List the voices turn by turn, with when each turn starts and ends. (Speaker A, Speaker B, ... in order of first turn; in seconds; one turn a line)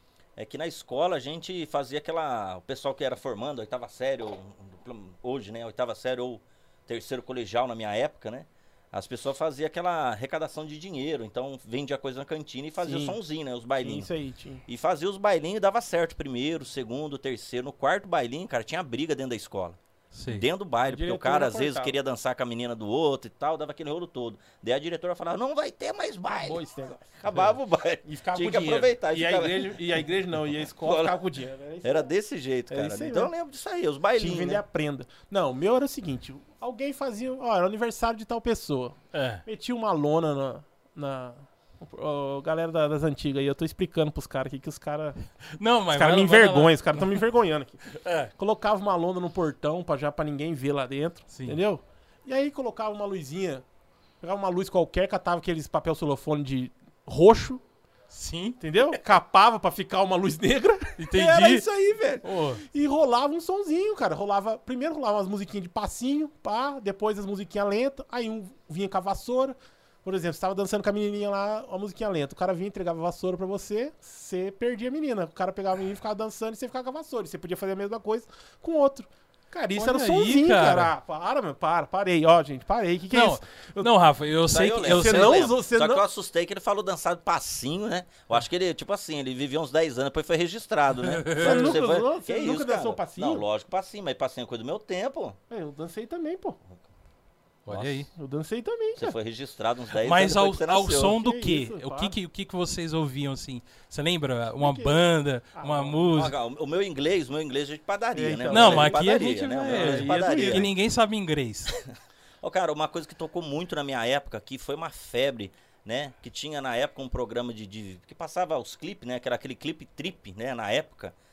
Speaker A: 0.4-14.1
Speaker B: 12.8-13.2
Speaker B: 13.8-14.6
Speaker A: 14.7-26.6
Speaker C: 20.1-20.4
Speaker B: 20.9-21.9
Speaker B: 26.3-27.2
Speaker A: 27.2-30.0
Speaker B: 28.1-32.1
Speaker A: 30.8-31.2
Speaker A: 31.8-34.6
Speaker B: 32.7-33.3
Speaker B: 34.2-45.2
Speaker C: 39.1-39.5
Speaker C: 45.6-47.1
Speaker B: 45.9-53.6
Speaker C: 48.0-48.3
Speaker C: 51.3-51.6
Speaker B: 54.2-57.6
Speaker C: 58.1-58.6
Speaker B: 58.6-83.9
Speaker C: 61.0-61.7
Speaker C: 62.2-62.6
Speaker C: 79.8-80.9
Speaker C: 83.1-85.4
Speaker A: 84.5-95.4
Speaker B: 84.8-86.0
Speaker C: 91.0-91.8
Speaker B: 91.4-93.5
Speaker B: 95.5-96.6
Speaker C: 97.7-98.1
Speaker B: 98.1-99.1
Speaker A: 99.0-101.2
Speaker C: 100.0-106.3
Speaker B: 101.0-102.2
Speaker B: 104.6-106.1
Speaker A: 106.1-110.7
Speaker B: 108.1-110.7
Speaker C: 108.5-111.7
Speaker A: 112.4-121.1